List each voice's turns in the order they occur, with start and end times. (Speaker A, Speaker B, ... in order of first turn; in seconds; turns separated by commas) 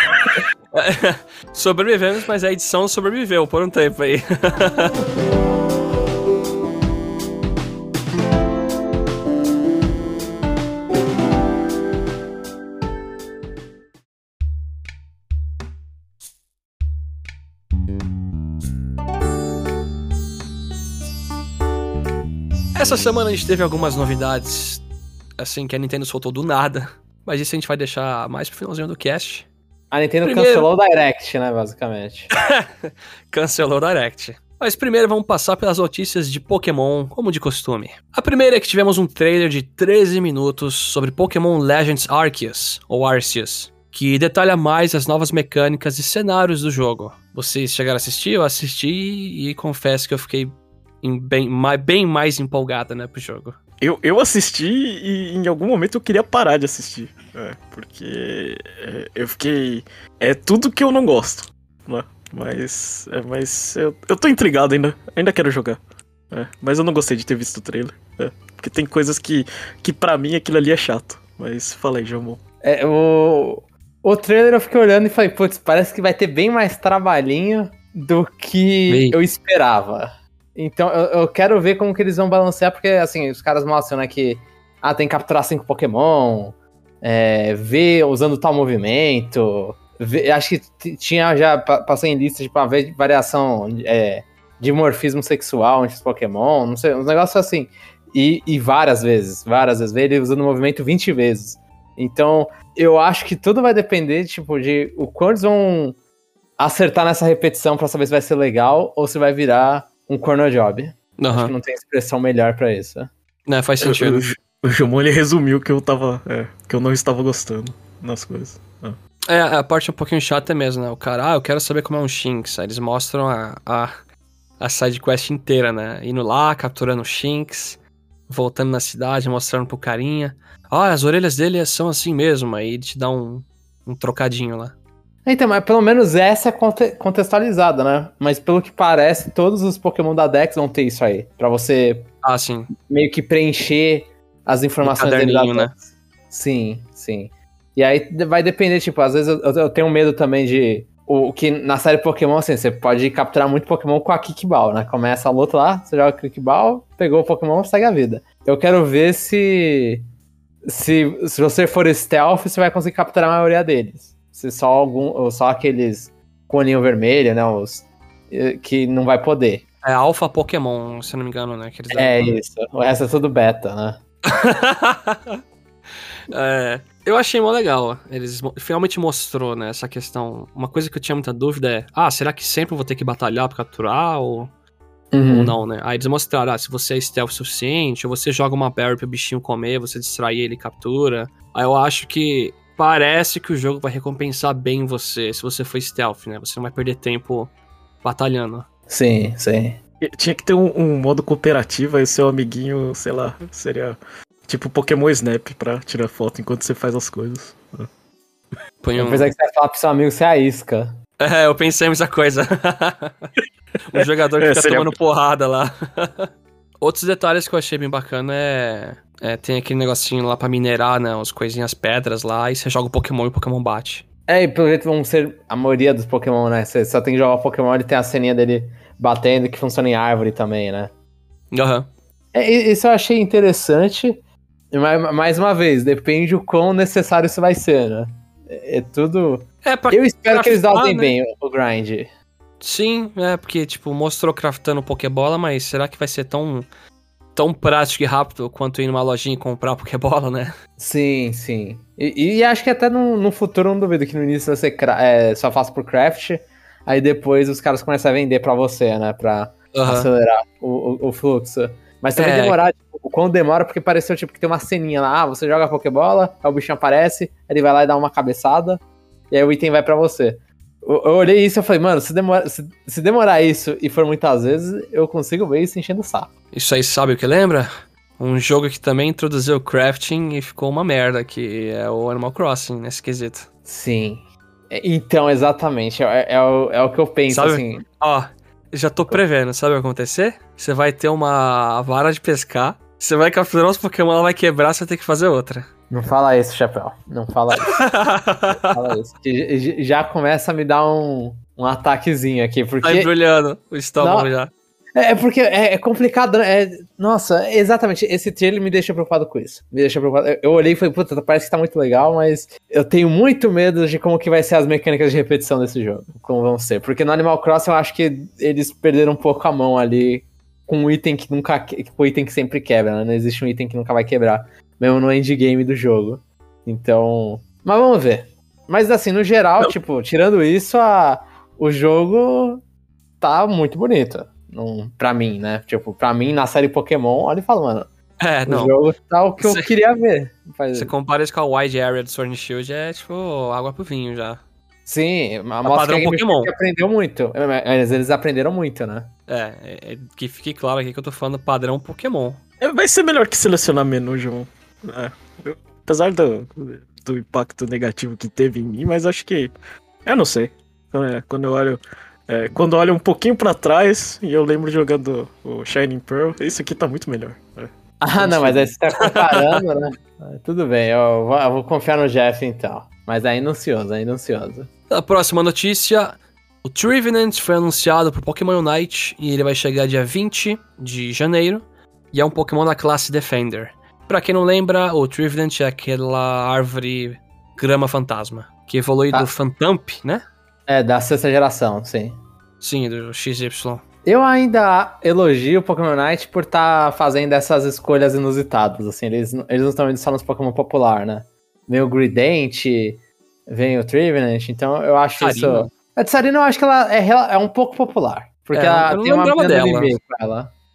Speaker A: 0.7-5.0, Speaker A: 22.8-24.9, Speaker A: 25.4-29.5, Speaker B: 29.9-32.3, Speaker A: 30.2-30.7, Speaker A: 32.4-53.6, Speaker C: 53.8-65.8, Speaker C: 66.3-72.4, Speaker B: 72.6-106.0, Speaker A: 78.9-79.2, Speaker B: 106.6-113.1, Speaker A: 111.2-111.5, Speaker A: 113.5-114.3, Speaker C: 113.8-119.0, Speaker A: 119.3-123.9, Speaker A: 124.6-127.8, Speaker A: 128.3-134.7, Speaker B: 135.2-142.1, Speaker A: 142.2-142.7, Speaker B: 142.8-160.1, Speaker A: 144.8-145.7, Speaker B: 160.7-169.6, Speaker A: 169.8-172.4, Speaker B: 171.9-174.0, Speaker A: 174.3-175.4, Speaker A: 176.3-184.5, Speaker B: 185.1-185.6, Speaker A: 185.3-198.7, Speaker B: 198.9-199.8, Speaker C: 200.0-207.9, Speaker A: 208.8-209.3, Speaker B: 209.0-210.9, Speaker A: 211.2-213.3, Speaker A: 213.9-216.3, Speaker C: 214.4-214.9, Speaker A: 216.8-224.0, Speaker B: 224.3-230.9, Speaker A: 231.5-231.9, Speaker B: 232.3-242.1, Speaker A: 239.6-241.2, Speaker A: 242.6-246.7, Speaker A: 247.3-250.5, Speaker B: 250.8-276.3, Speaker A: 259.7-260.1, Speaker A: 262.2-262.6, Speaker A: 276.5-283.5, Speaker B: 283.7-287.8, Speaker A: 287.3-295.7, Speaker B: 295.9-297.9, Speaker A: 297.7-298.8, Speaker B: 298.7-303.1, Speaker A: 302.8-304.5, Speaker B: 304.0-304.3, Speaker B: 305.0-332.6, Speaker B: 333.2-337.9, Speaker A: 338.2-338.8, Speaker B: 338.5-340.9, Speaker A: 339.4-339.7, Speaker A: 340.7-344.4, Speaker B: 344.9-349.1, Speaker A: 345.6-346.5, Speaker A: 349.3-352.4, Speaker C: 352.6-359.5, Speaker C: 360.1-368.7, Speaker B: 368.0-374.7, Speaker A: 369.0-369.6, Speaker A: 374.9-390.2, Speaker B: 390.7-392.2, Speaker A: 392.6-393.8, Speaker B: 394.1-410.5, Speaker A: 405.2-405.7, Speaker A: 408.5-409.9